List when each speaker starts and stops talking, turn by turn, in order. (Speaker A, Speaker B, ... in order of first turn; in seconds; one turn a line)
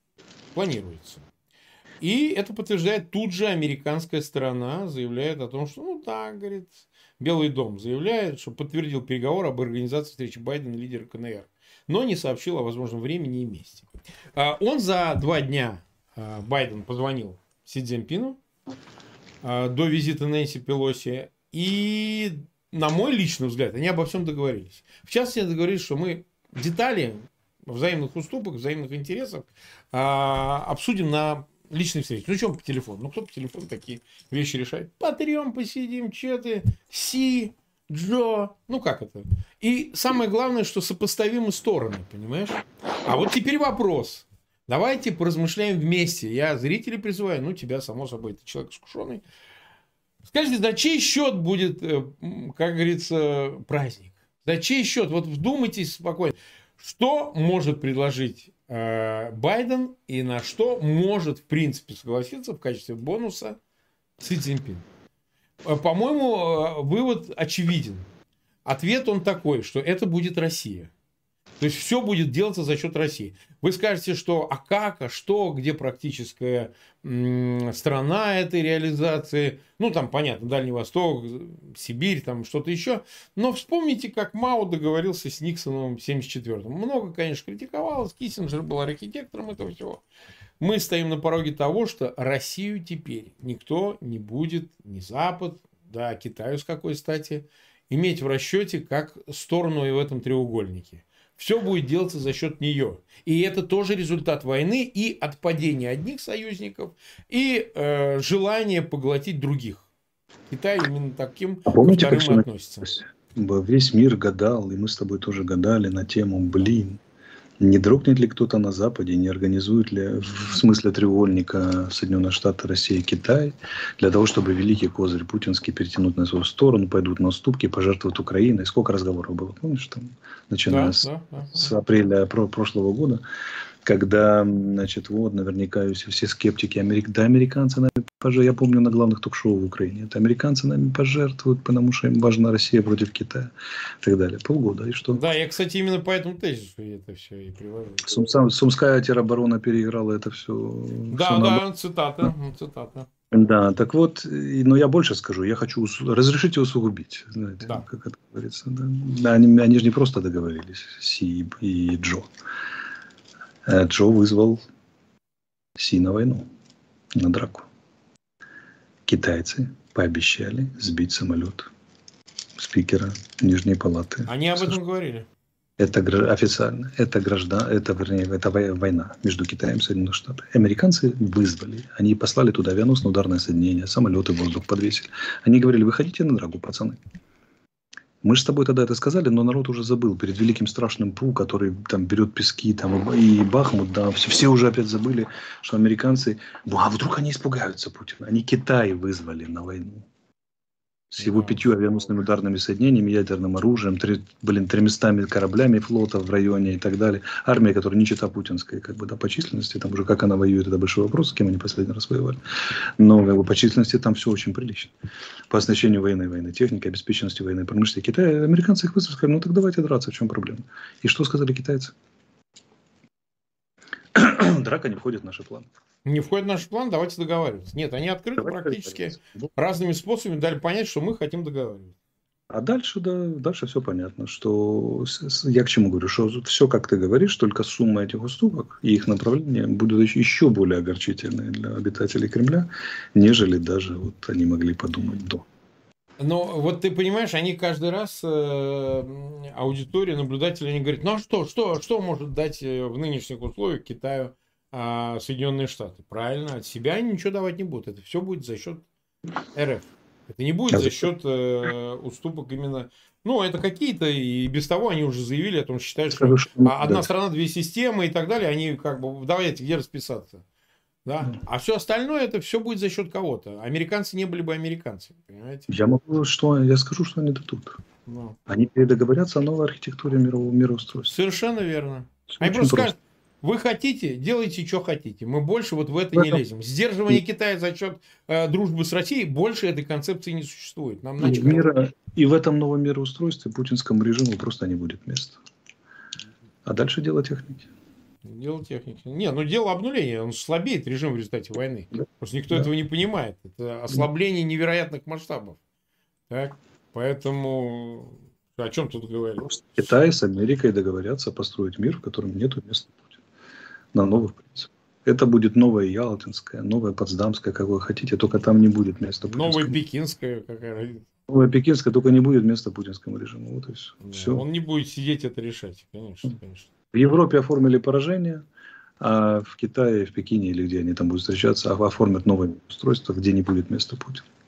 Speaker A: 0.5-1.3
Speaker A: 2.0-18.4
Speaker A: 19.4-49.2
Speaker A: 50.3-63.6
Speaker A: 64.2-64.8
Speaker A: 65.6-68.1
Speaker A: 68.7-70.9
Speaker A: 71.6-90.0
Speaker A: 90.6-109.9
Speaker A: 110.5-113.0
Speaker B: 111.7-117.0
Speaker B: 117.6-133.2
Speaker A: 130.7-131.7
Speaker B: 133.8-145.2
Speaker A: 145.1-148.3
Speaker B: 148.1-151.6
Speaker A: 151.1-153.1
Speaker B: 153.3-162.3
Speaker B: 163.6-164.6
Speaker B: 165.7-166.4
Speaker B: 167.1-167.7
Speaker B: 169.1-171.7
Speaker B: 172.6-174.7
Speaker A: 174.3-175.2
Speaker B: 175.8-187.0
Speaker B: 188.2-200.1
Speaker B: 201.1-212.4
Speaker A: 201.2-201.6
Speaker B: 213.0-214.9
Speaker B: 215.5-221.9
Speaker B: 224.1-225.7
Speaker A: 226.0-231.9
Speaker B: 228.4-229.5
Speaker B: 232.5-245.4
Speaker A: 246.2-258.8
Speaker A: 259.5-270.4
Speaker B: 260.7-261.1
Speaker B: 266.1-267.1
Speaker A: 271.0-275.7
Speaker B: 275.7-277.8
Speaker A: 278.1-278.4
Speaker B: 278.5-281.1
Speaker A: 281.1-291.7
Speaker B: 282.3-282.9
Speaker B: 286.1-286.4
Speaker B: 291.2-295.4
Speaker B: 296.6-297.7
Speaker A: 298.2-305.6
Speaker A: 306.3-309.8
Speaker B: 309.5-313.1
Speaker B: 313.9-319.8
Speaker A: 319.3-321.1
Speaker B: 321.3-324.4
Speaker A: 324.0-326.7
Speaker B: 326.9-328.4
Speaker B: 329.0-334.2